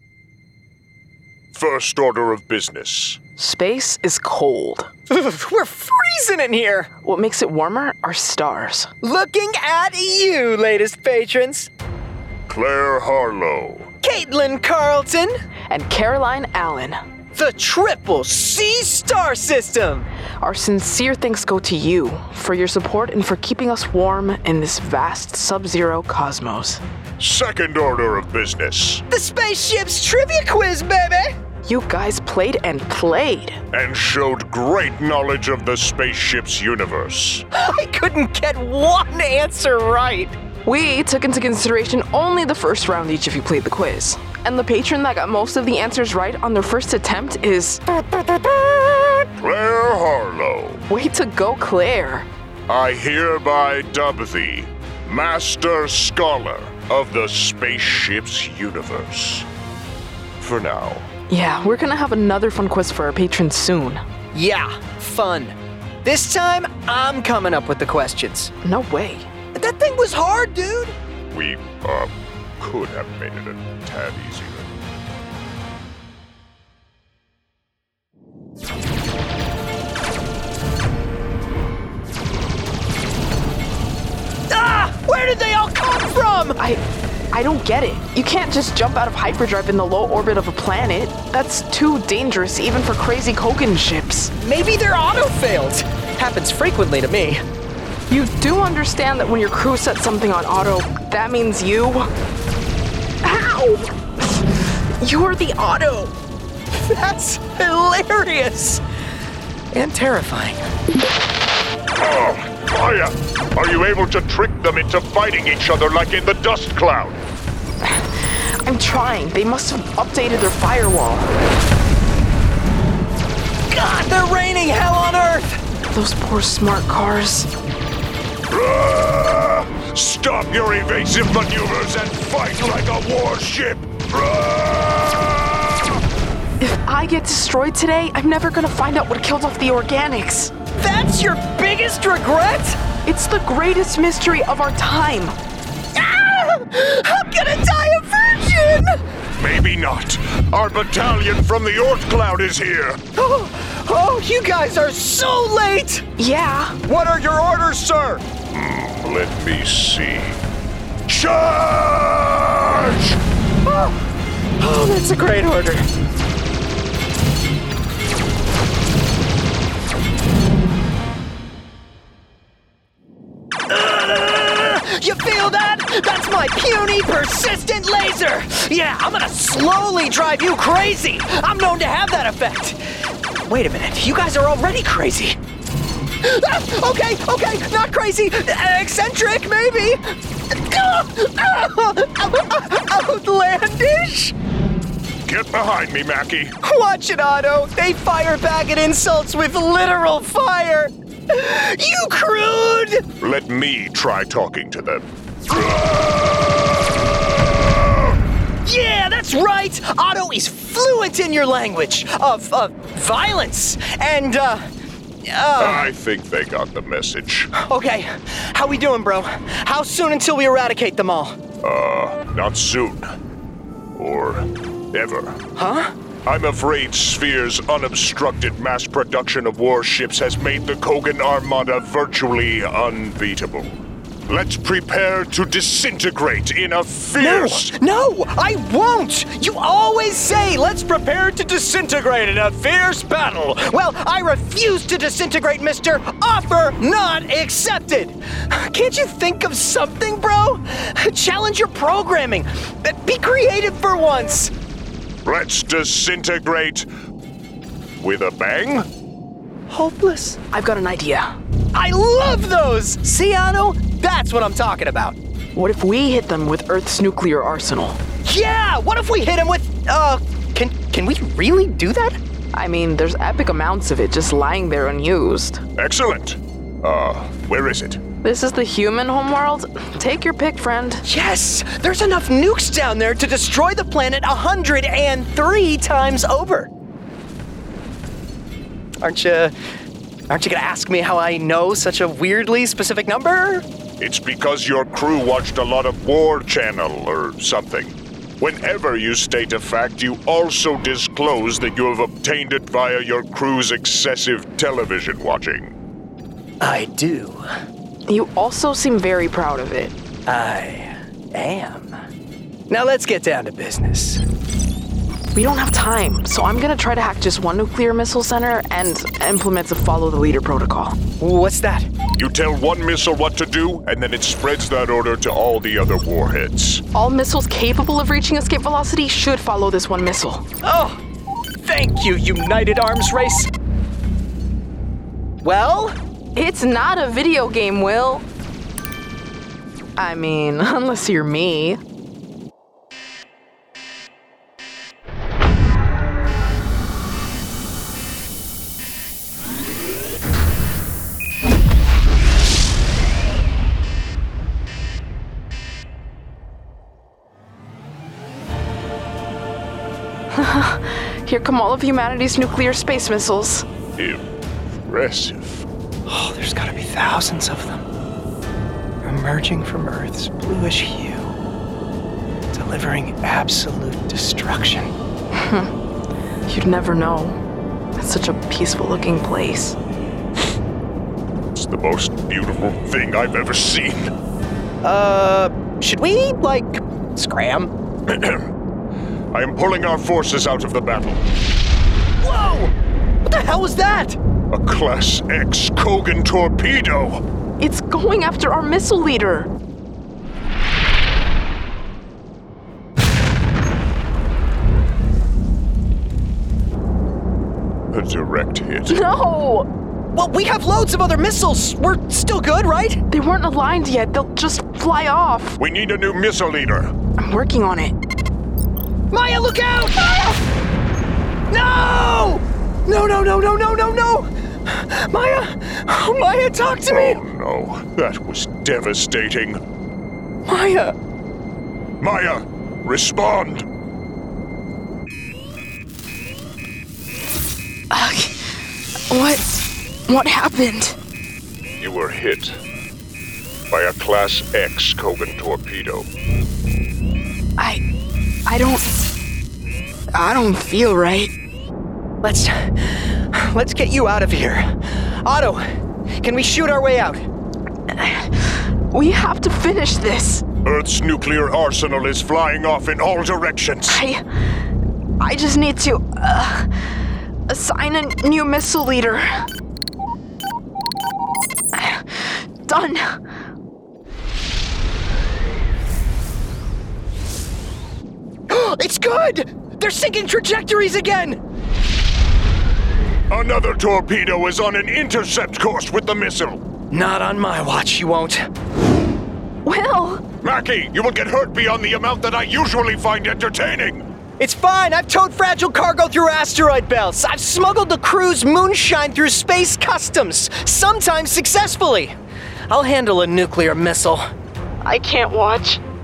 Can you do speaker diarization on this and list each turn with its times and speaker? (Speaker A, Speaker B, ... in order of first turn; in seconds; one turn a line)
Speaker A: 1.5-3.2
Speaker B: 3.4-4.9
Speaker C: 5.1-6.9
Speaker B: 7.0-8.9
Speaker C: 9.0-11.7
Speaker A: 12.5-13.9
Speaker C: 14.0-15.3
Speaker B: 15.7-17.0
Speaker C: 17.3-20.1
Speaker B: 20.4-26.8
Speaker A: 27.2-29.0
Speaker C: 29.1-31.4
Speaker B: 31.6-33.6
Speaker A: 33.7-37.5
Speaker C: 37.5-40.4
Speaker B: 40.6-47.8
Speaker C: 47.9-49.3
Speaker A: 49.4-50.8
Speaker B: 50.9-52.3
Speaker A: 52.7-59.5
Speaker A: 60.4-61.1
Speaker B: 61.3-64.0
Speaker C: 64.3-68.5
Speaker B: 68.6-69.3
Speaker C: 69.5-70.9
Speaker A: 71.3-74.7
Speaker C: 84.5-86.6
Speaker B: 86.6-94.3
Speaker C: 94.4-97.4
Speaker B: 98.1-102.1
Speaker B: 103.2-106.1
Speaker C: 106.7-108.8
Speaker C: 109.7-110.7
Speaker A: 112.0-117.2
Speaker B: 117.8-121.3
Speaker C: 123.7-125.6
Speaker B: 125.9-127.5
Speaker A: 128.5-136.0
Speaker B: 136.6-140.5
Speaker C: 140.7-142.8
Speaker B: 143.1-145.3
Speaker C: 145.9-149.0
Speaker A: 149.4-153.0
Speaker C: 153.1-156.1
Speaker B: 156.2-156.8
Speaker C: 156.8-158.2
Speaker A: 158.5-160.4
Speaker A: 161.1-163.2
Speaker C: 163.6-163.9
Speaker C: 164.6-165.9
Speaker C: 173.7-185.4
Speaker C: 186.2-194.3
Speaker A: 195.2-196.5
Speaker C: 196.6-203.0
Speaker A: 203.2-205.1
Speaker C: 205.5-206.4
Speaker A: 205.9-206.6
Speaker C: 208.6-214.7
Speaker C: 215.2-215.9
Speaker A: 215.6-217.5
Speaker C: 217.5-221.4
Speaker A: 221.6-223.1
Speaker A: 223.9-225.4
Speaker C: 225.6-225.9
Speaker A: 226.2-237.7
Speaker C: 237.2-254.5
Speaker A: 255.2-256.9
Speaker A: 258.0-258.9
Speaker C: 259.7-260.4
Speaker B: 260.5-261.3
Speaker C: 261.7-265.2
Speaker B: 265.5-268.0
Speaker C: 268.2-272.2
Speaker B: 272.5-275.6
Speaker A: 275.8-278.0
Speaker B: 278.2-281.0
Speaker C: 281.0-286.7
Speaker C: 289.0-289.5
Speaker C: 290.3-293.6
Speaker A: 294.0-305.7
Speaker C: 306.6-307.4
Speaker B: 308.1-309.9
Speaker C: 310.3-311.9
Speaker C: 312.7-314.2
Speaker B: 315.3-321.0
Speaker C: 321.2-321.9
Speaker A: 322.2-326.8
Speaker B: 326.9-330.4
Speaker C: 330.6-331.0
Speaker C: 331.6-333.5
Speaker C: 335.4-336.0
Speaker B: 336.3-338.2
Speaker B: 340.0-341.8
Speaker B: 360.3-363.6
Speaker A: 364.0-364.2
Speaker A: 364.9-365.7
Speaker C: 366.1-367.8
Speaker C: 369.0-371.3
Speaker C: 372.5-374.9
Speaker B: 375.3-375.7
Speaker B: 376.5-377.4
Speaker B: 378.0-379.8
Speaker A: 381.5-384.1
Speaker C: 384.8-387.7
Speaker A: 388.1-388.5
Speaker A: 389.3-391.2
Speaker C: 392.2-392.7
Speaker C: 393.2-394.2
Speaker A: 394.5-397.2
Speaker B: 397.6-399.5
Speaker A: 407.9-409.0
Speaker B: 408.9-409.7
Speaker C: 410.1-413.0
Speaker B: 413.1-415.6
Speaker A: 415.6-416.9
Speaker B: 417.2-417.9
Speaker C: 419.1-420.5
Speaker C: 421.5-427.2
Speaker A: 426.9-429.6
Speaker C: 430.4-430.9
Speaker A: 432.0-433.7
Speaker B: 437.9-438.4
Speaker B: 439.1-439.5
Speaker B: 440.1-441.0
Speaker A: 441.8-442.6
Speaker A: 443.7-446.1
Speaker B: 448.4-448.9
Speaker B: 450.1-451.3
Speaker C: 452.2-455.6
Speaker C: 456.2-457.2
Speaker B: 457.9-460.4
Speaker A: 460.6-464.0
Speaker B: 463.9-464.2
Speaker B: 465.2-469.4
Speaker B: 471.7-473.2
Speaker C: 478.5-481.4
Speaker A: 483.3-486.6
Speaker C: 486.9-488.5
Speaker B: 489.6-490.2
Speaker A: 490.4-494.0
Speaker C: 494.4-502.2
Speaker C: 502.7-504.3
Speaker B: 504.8-505.8